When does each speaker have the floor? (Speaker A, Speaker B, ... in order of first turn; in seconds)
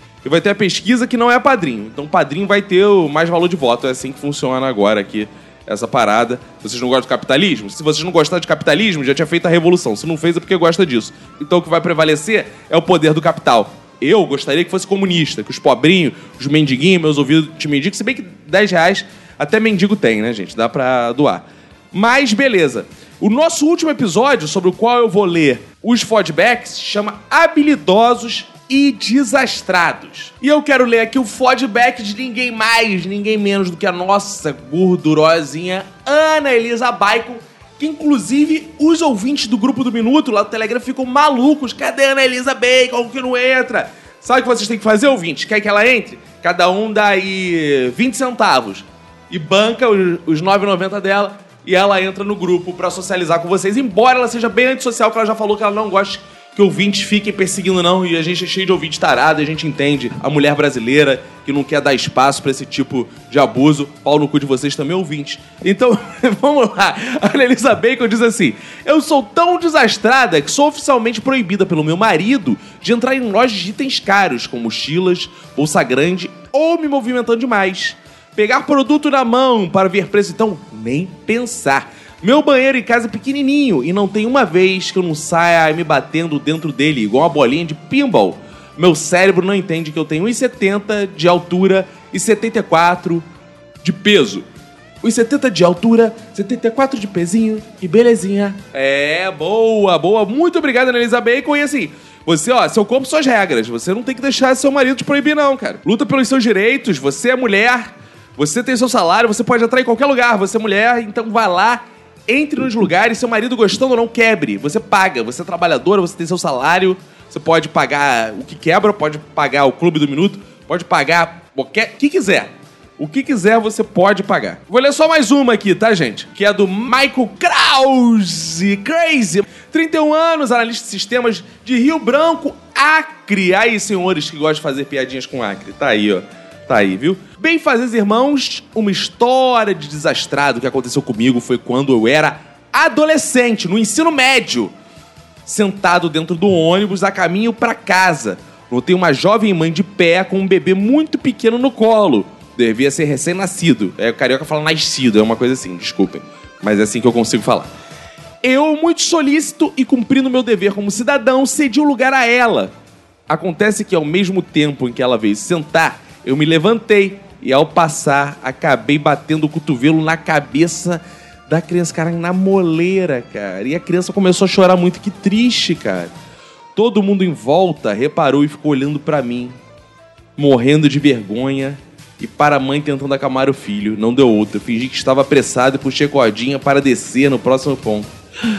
Speaker A: 0.2-93.2, 93.8-94.5, 95.0-144.7, 145.5-157.7, 158.4-162.7, 163.3-176.1, 176.8-179.6, 180.4-188.1